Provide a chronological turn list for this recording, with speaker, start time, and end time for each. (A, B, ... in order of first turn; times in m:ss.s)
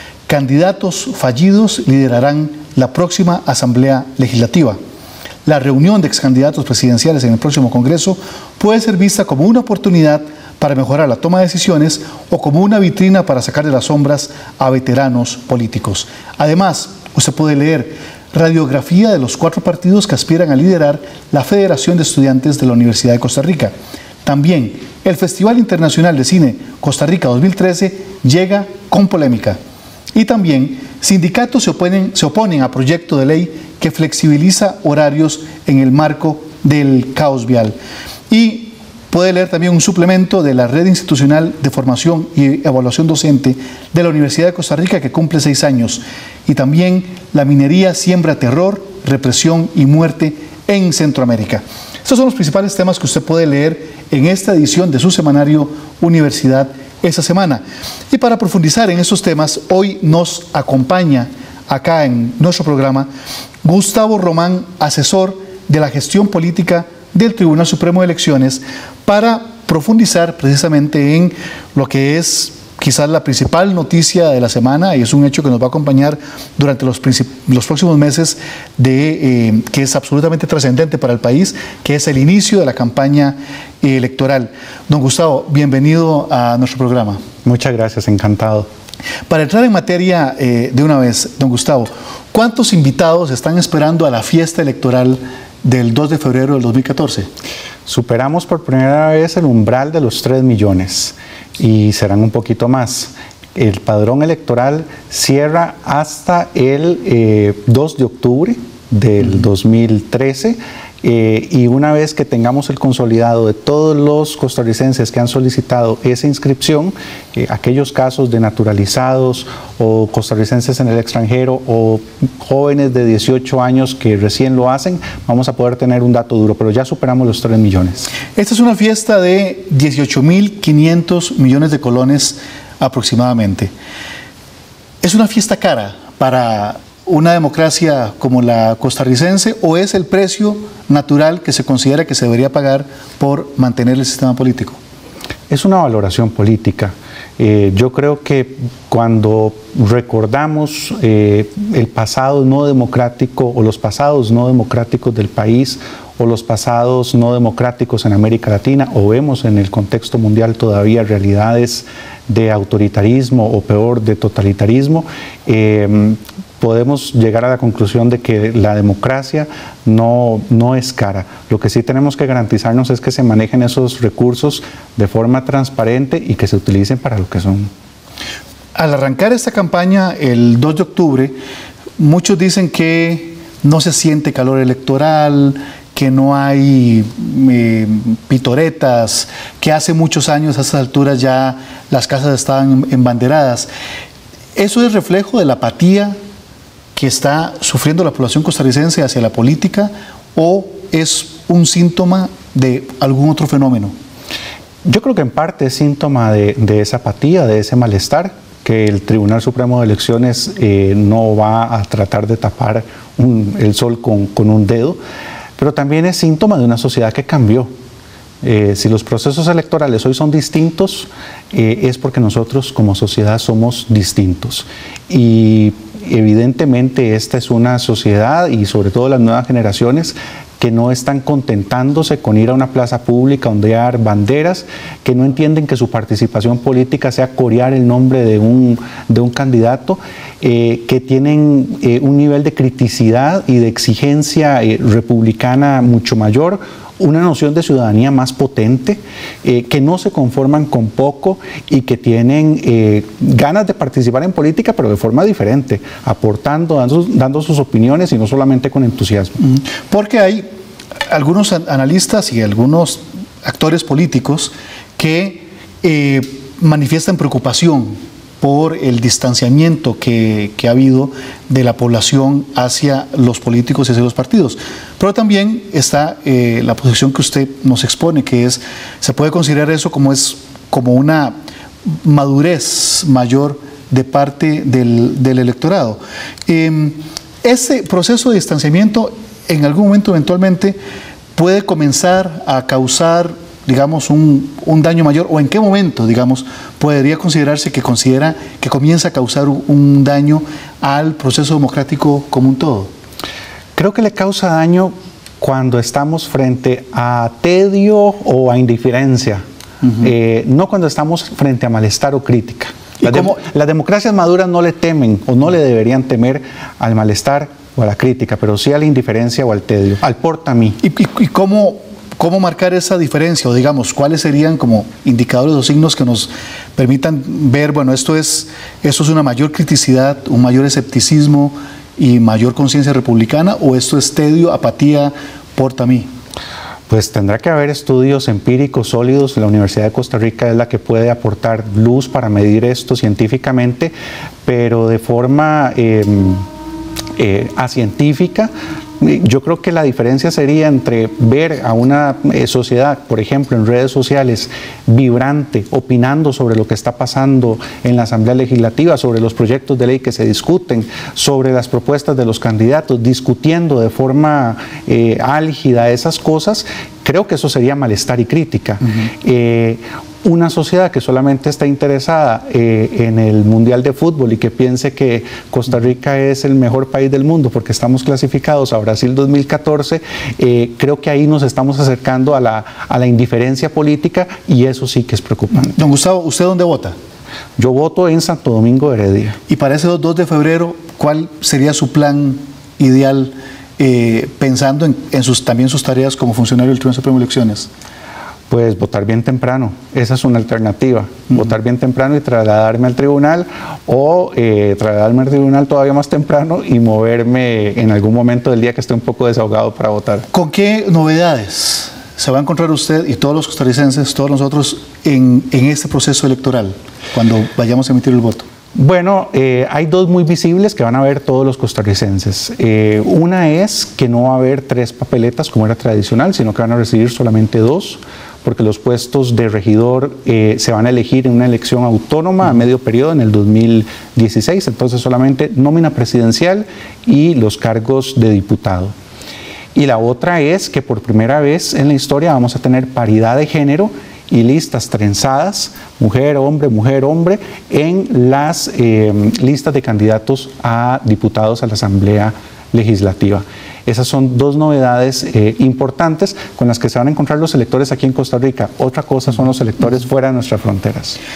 0:00.3-0:04.8 A
0:05.4-0:23.7 A
0:24.2-0:29.6 A
0:30.1-0:37.8 A
0:38.3-1:03.1 A
1:03.6-1:27.2 A
1:27.4-1:28.7 B
1:29.3-1:37.3 A
1:37.8-2:08.1 B
2:08.3-2:13.7 A
2:15.0-2:24.8 A
2:25.5-2:57.7 B
2:58.7-3:01.4 A
3:02.0-3:13.7 A
3:14.5-3:16.2 A
3:16.9-3:23.9 A
3:24.8-3:35.0 B
3:35.6-3:37.7 B
3:38.4-4:19.4 B
4:19.4-4:20.5 A
4:21.1-4:50.8 A
4:51.3-5:02.9 A
5:03.7-5:09.4 B
5:10.0-5:20.8 B
5:13.0-5:13.3 A
5:20.8-5:36.1 A
5:36.9-5:43.9 B
5:44.4-5:46.4 B
5:47.2-6:25.8 B
6:25.7-6:27.0 A
6:27.6-6:29.4 B
6:29.5-6:37.7 A
6:38.5-6:50.3 B
6:50.3-6:58.4 A
6:58.7-7:18.9 B
7:19.7-7:41.2 B